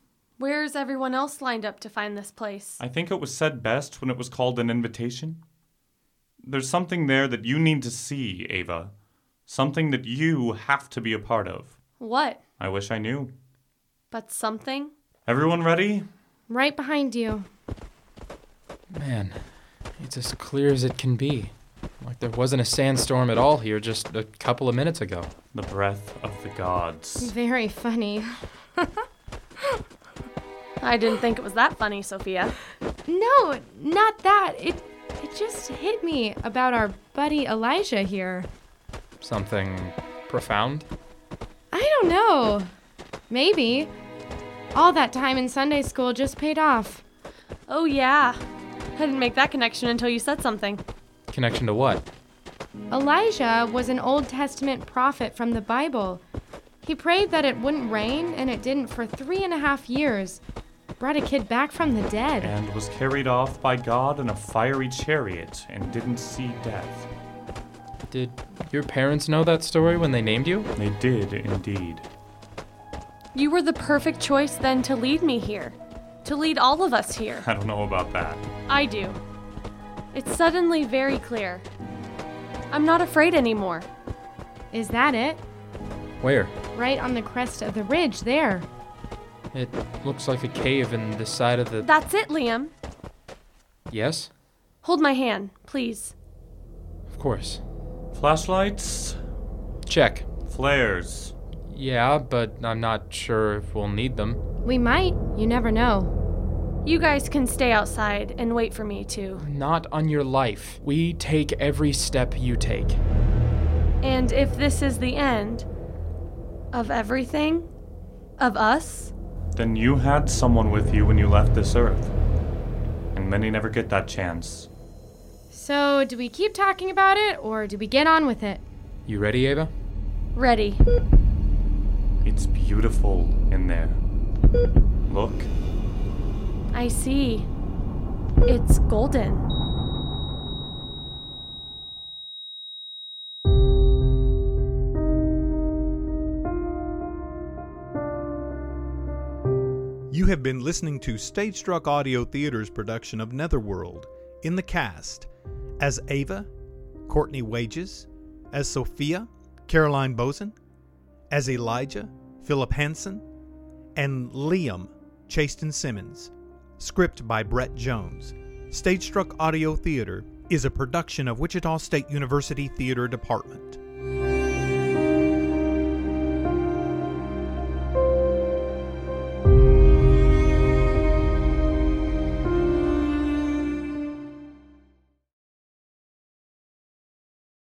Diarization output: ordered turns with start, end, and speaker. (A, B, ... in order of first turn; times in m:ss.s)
0:00.4-0:02.8 A
0:02.8-0:05.4 B
0:06.4-0:08.9 B
0:09.5-0:11.8 B
0:12.0-0:12.4 A
0:12.6-0:13.3 B
0:14.1-0:14.9 A
0:15.3-0:16.1 B
0:16.5-0:17.5 C
0:18.9-0:19.4 D
0:20.0-0:25.3 D
0:25.5-0:27.3 B
0:27.2-0:29.0 C
0:30.8-0:32.6 A
0:33.1-0:38.5 C
0:39.2-0:40.9 D
0:41.7-0:42.7 C
0:43.3-0:43.9 C
0:44.7-0:47.0 C
0:47.7-0:48.4 A
0:49.0-0:50.8 A
0:51.3-0:52.0 D
0:52.9-0:56.2 C
0:56.8-1:00.4 C
1:01.0-1:02.6 C
1:02.4-1:07.1 B
1:08.1-1:10.7 D
1:10.8-1:12.1 B
1:13.3-1:17.5 A
1:17.4-1:18.4 B
1:18.7-1:19.2 A
1:20.1-1:21.6 A
1:22.7-1:23.9 A
1:24.7-1:25.4 C
1:26.2-1:26.5 D
1:26.7-1:28.7 C
1:29.5-1:31.9 D
1:31.8-1:32.7 A
1:33.9-1:34.3 D
1:34.8-1:36.1 A
1:37.1-1:37.6 D
1:38.1-1:39.2 B
1:39.9-1:40.2 D
1:40.5-1:41.3 B
1:41.7-1:44.4 D
1:44.6-1:46.1 C
1:46.8-1:49.4 A
1:49.4-1:53.0 D
1:54.0-1:55.7 A
1:56.7-1:57.7 A
1:58.4-1:59.1 A
1:59.6-2:02.1 B
2:03.1-2:04.7 B
2:05.5-2:08.6 C
2:09.1-2:09.7 D
2:10.4-2:10.8 A
2:12.2-2:14.0 B
2:15.1-2:15.5 B
2:16.7-2:17.5 A
2:18.4-2:19.4 A
2:30.1-2:35.3 E
2:35.8-2:36.5 E
2:37.1-2:40.6 E
2:41.3-2:43.2 E
2:44.0-2:53.8 E